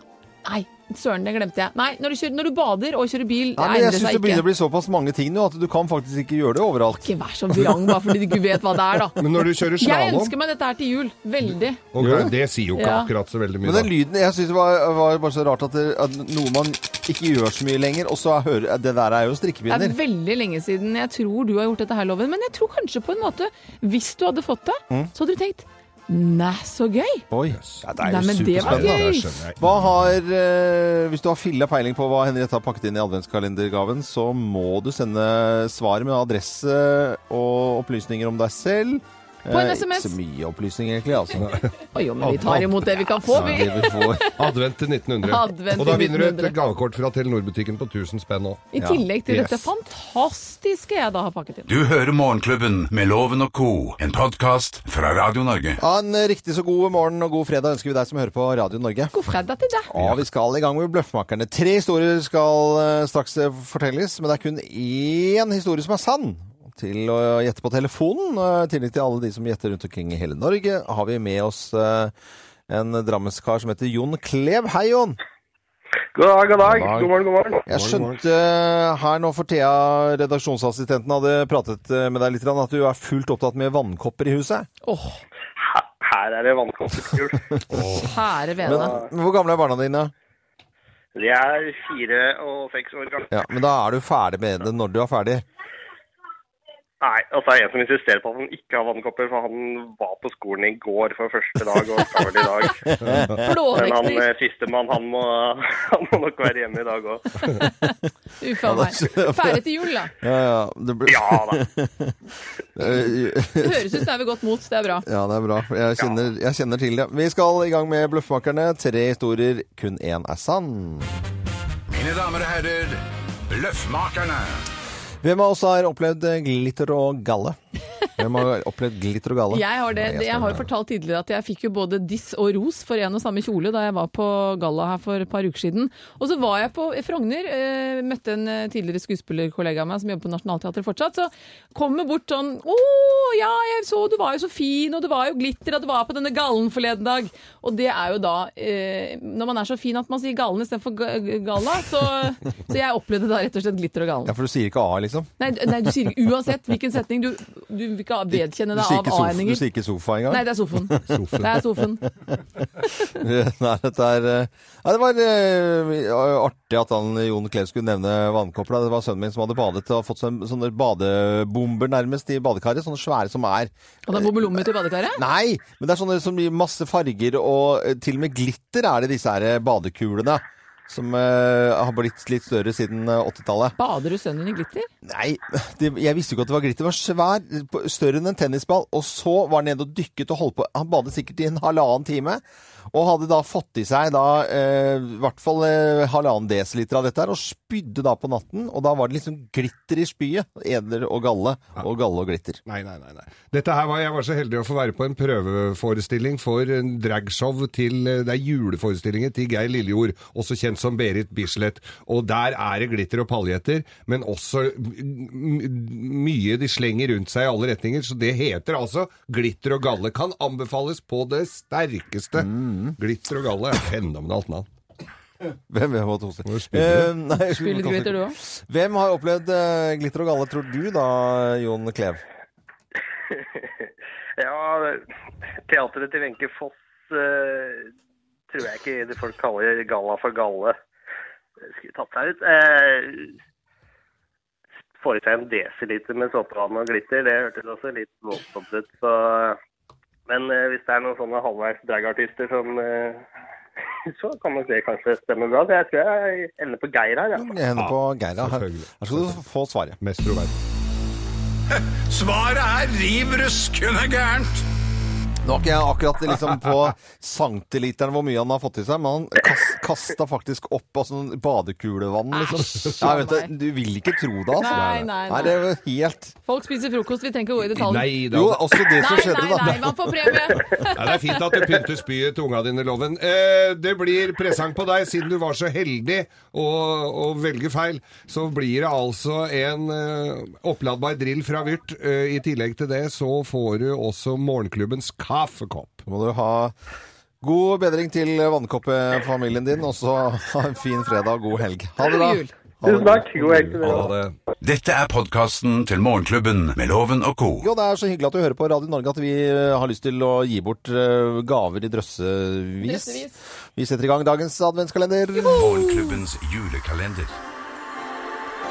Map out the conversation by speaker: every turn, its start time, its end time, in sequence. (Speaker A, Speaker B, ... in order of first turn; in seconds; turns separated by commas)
Speaker A: 0.4-4.5, Speaker B: 3.6-7.1, Speaker A: 6.9-11.8, Speaker C: 9.2-10.3, Speaker C: 11.9-13.9, Speaker B: 12.0-12.3, Speaker A: 12.8-13.1, Speaker B: 13.6-20.0, Speaker A: 19.7-27.2, Speaker B: 27.3-29.1, Speaker C: 27.5-29.7, Speaker A: 28.0-29.3, Speaker B: 29.6-41.5, Speaker A: 39.5-40.2, Speaker C: 41.4-43.6, Speaker A: 41.9-44.5, Speaker B: 43.3-44.3, Speaker C: 44.3-48.7, Speaker A: 45.2-46.6, Speaker A: 48.7-51.7, Speaker B: 48.8-49.0, Speaker C: 49.3-49.7, Speaker D: 51.7-55.8, Speaker B: 55.8-59.1, Speaker A: 59.1-59.9, Speaker B: 59.9-72.1, Speaker B: 72.7-75.2, Speaker E: 76.1-77.6, Speaker B: 76.6-77.1, Speaker B: 77.7-84.7, Speaker C: 77.7-78.2, Speaker A: 84.8-85.2, Speaker E: 85.6-87.5, Speaker B: 87.6-87.8, Speaker C: 87.7-88.0, Speaker A: 87.9-89.0, Speaker B: 88.6-90.1, Speaker E: 88.7-89.1, Speaker E: 91.1-93.3, Speaker B: 93.3-95.4, Speaker E: 97.0-102.9, Speaker B: 103.0-103.4, Speaker C: 103.0-103.4, Speaker A: 103.4-104.3, Speaker E: 103.7-107.4, Speaker A: 107.5-110.1, Speaker B: 108.6-109.6, Speaker B: 110.2-112.2, Speaker E: 111.1-111.6, Speaker B: 112.8-114.0, Speaker A: 113.5-115.0, Speaker B: 115.0-121.1, Speaker D: 121.9-124.6, Speaker B: 125.2-127.6, Speaker B: 128.2-130.7, Speaker A: 129.5-154.3, Speaker B: 154.2-155.3, Speaker A: 155.4-159.6, Speaker B: 158.3-161.4, Speaker A: 160.3-162.1, Speaker C: 161.1-161.5, Speaker B: 163.0-183.8, Speaker A: 174.1-175.2, Speaker A: 183.8-184.9, Speaker B: 185.0-202.6, Speaker C: 202.7-224.7, Speaker B: 222.4-223.0, Speaker B: 225.7-232.2, Speaker C: 226.5-227.1, Speaker A: 227.5-228.4, Speaker E: 233.3-235.0, Speaker E: 235.7-237.9, Speaker E: 238.5-240.8, Speaker E: 241.6-243.3, Speaker E: 245.0-249.6, Speaker E: 250.3-253.2, Speaker E: 254.1-257.6, Speaker B: 257.3-260.0, Speaker C: 257.8-259.4, Speaker C: 260.0-260.6, Speaker D: 261.7-264.6, Speaker B: 265.4-276.4, Speaker A: 272.3-273.5, Speaker A: 274.6-275.6, Speaker C: 274.7-275.1, Speaker A: 276.5-278.2, Speaker C: 277.7-278.9, Speaker B: 278.3-280.4, Speaker A: 278.8-281.4, Speaker C: 280.7-296.0, Speaker B: 296.1-296.7, Speaker B: 297.4-304.0, Speaker A: 302.0-302.5, Speaker E: 302.8-304.1, Speaker C: 303.4-304.4, Speaker D: 304.6-307.7, Speaker B: 307.6-315.8, Speaker A: 312.8-313.4, Speaker A: 315.3-316.2, Speaker D: 315.5-317.3